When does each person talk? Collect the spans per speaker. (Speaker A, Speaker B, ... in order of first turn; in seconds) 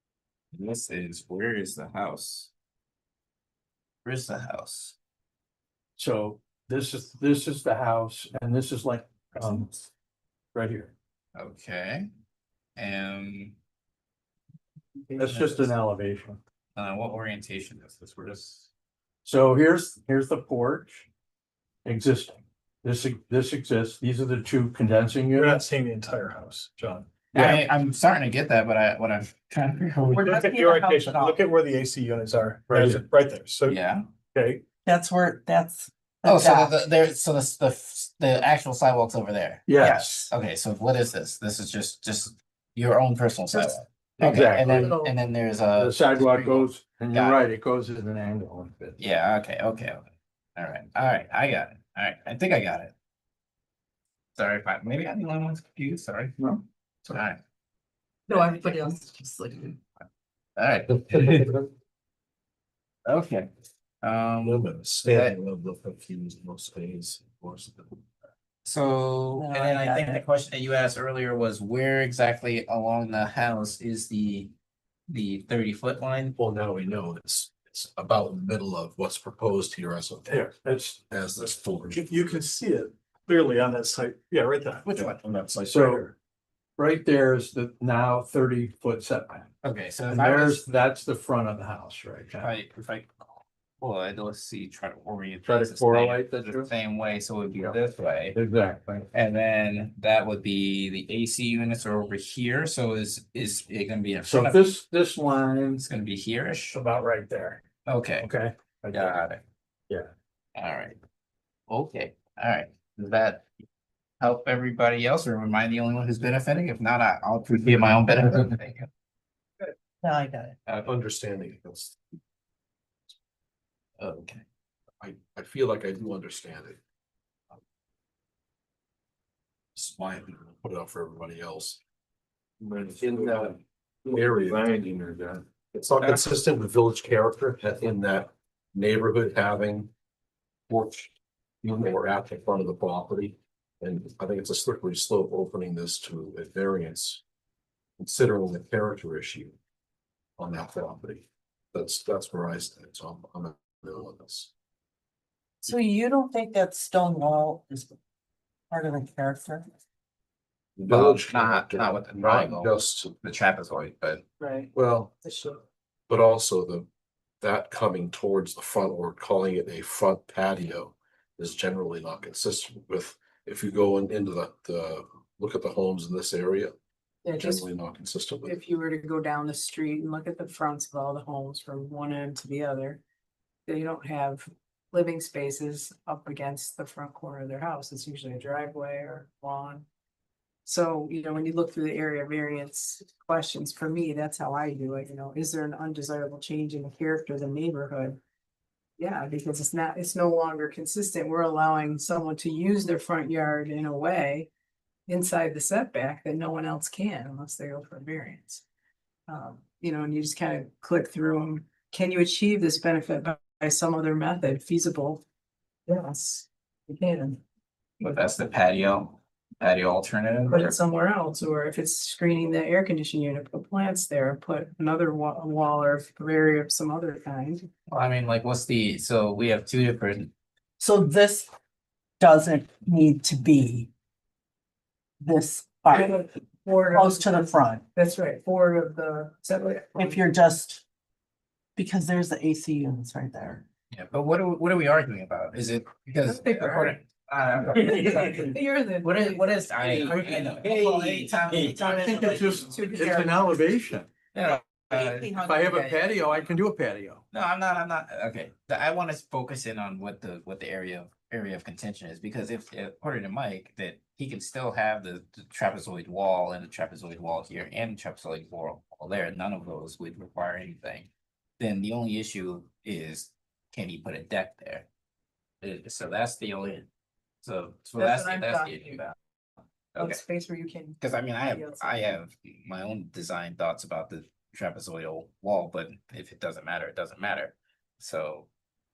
Speaker A: 0.5-2.5, 4.0-5.0, 11.3-12.1, 12.8-13.6, 15.2-15.7, 16.8-18.7, 27.3-30.4, 33.6-34.0, 36.2-47.4, 49.0-50.0, 50.6-52.9, 54.4-57.4, 58.3-58.8, 60.6-61.6, 63.1-63.5, 64.0-65.3, 68.7-74.5, 75.1-76.4, 84.8-85.2, 89.6-90.6, 92.4-98.4, 99.1-104.7, 105.8-106.8, 107.9-108.3, 108.9-109.4, 110.6-111.0, 111.7-113.5, 114.2-118.9, 120.7-120.9, 124.0-124.4, 129.8-130.3, 160.9-164.2, 218.0-220.8, 227.9-230.3, 243.9-252.7, 254.3-256.5, 257.3-274.9, 275.6-276.9, 277.4-279.0, 279.9-280.2, 281.0-288.5
Speaker B: 6.0-9.8, 10.5-10.9, 15.2-16.4, 19.2-21.1, 21.9-25.6, 27.3-27.6, 32.7-33.0, 39.7-40.3, 44.2-45.0, 45.8-49.0, 80.6-81.0, 85.7-86.1, 86.8-89.5, 90.1-92.5, 95.4-96.7, 98.3-99.1, 104.2-105.8, 108.3-109.2, 132.6-133.5, 134.1-135.4, 250.0-250.7, 251.7-254.1, 255.3-257.2
Speaker C: 25.3-27.1, 30.1-33.8, 34.3-34.6, 81.9-86.1, 106.7-107.6
Speaker D: 30.1-31.4, 34.9-36.8, 39.8-40.3, 44.8-45.1, 58.3-59.8, 69.4-70.2, 120.0-120.5, 155.6-157.9, 158.7-159.7, 230.8-231.5, 232.2-233.9, 235.2-236.3, 236.9-237.8, 240.0-240.8, 241.8-243.6, 250.1-253.4, 254.9-255.8
Speaker E: 64.4-68.0, 76.4-80.5, 81.1-82.0, 120.8-122.0, 125.0-126.8, 130.3-131.8, 133.0-134.7, 135.7-139.9, 140.7-147.2, 148.0-149.6, 150.4-154.5, 160.8-163.1, 164.7-165.2, 166.1-166.9, 167.4-176.7, 177.4-178.6
Speaker F: 164.4-164.7, 165.2-165.6, 177.2-177.7, 178.4-183.0, 183.7-189.9, 190.7-198.2, 199.0-204.5, 205.1-208.6, 209.3-215.2, 215.9-217.4, 220.5-227.7, 235.9-240.2, 246.3-247.0, 247.8-250.0, 278.0-279.2, 280.0-282.2